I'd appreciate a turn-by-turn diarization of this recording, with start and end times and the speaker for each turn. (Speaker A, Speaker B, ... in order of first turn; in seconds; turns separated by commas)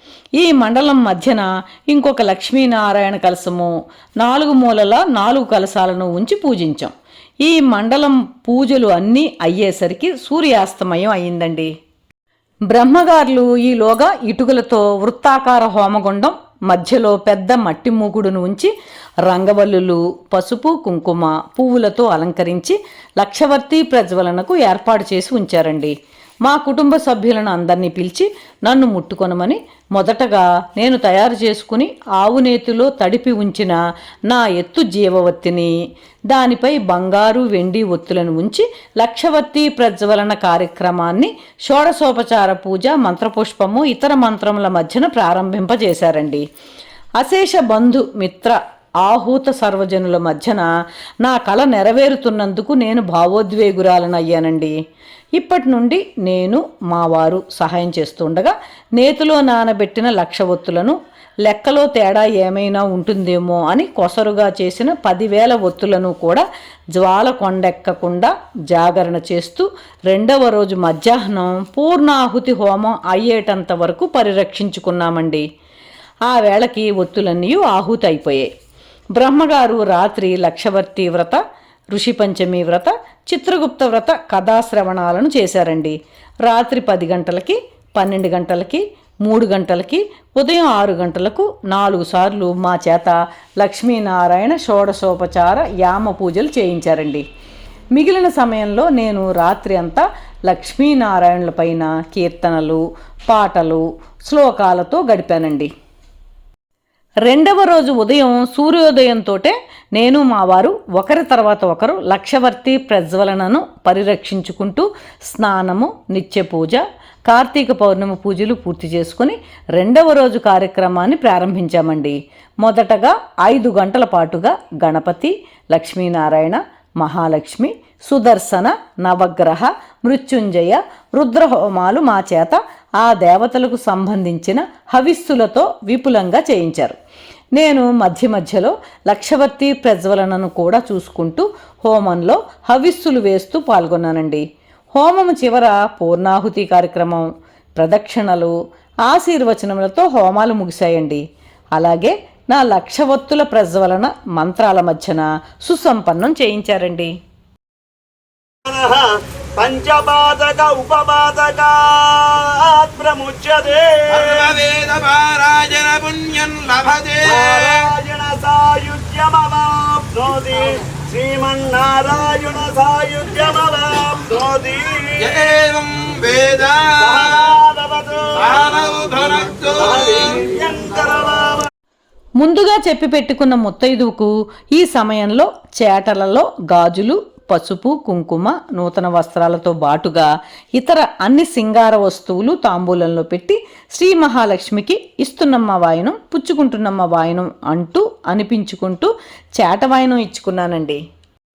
Speaker A: 0.4-11.7, Speaker A: 12.7-18.7, Speaker A: 19.3-25.9, Speaker A: 26.4-35.7, Speaker A: 36.3-46.4, Speaker A: 47.2-50.7, Speaker A: 51.2-54.7, Speaker A: 55.4-66.5, Speaker A: 67.0-75.5, Speaker A: 76.3-78.5, Speaker A: 79.2-81.4, Speaker A: 81.9-97.2, Speaker A: 98.0-105.7, Speaker A: 107.3-137.0, Speaker A: 137.6-144.4, Speaker A: 144.9-148.5, Speaker A: 149.1-151.2, Speaker A: 151.8-157.2, Speaker B: 158.7-164.6, Speaker C: 164.1-167.9, Speaker B: 166.9-175.5, Speaker C: 175.2-177.4, Speaker B: 177.0-181.7, Speaker C: 178.4-180.4, Speaker A: 182.4-201.0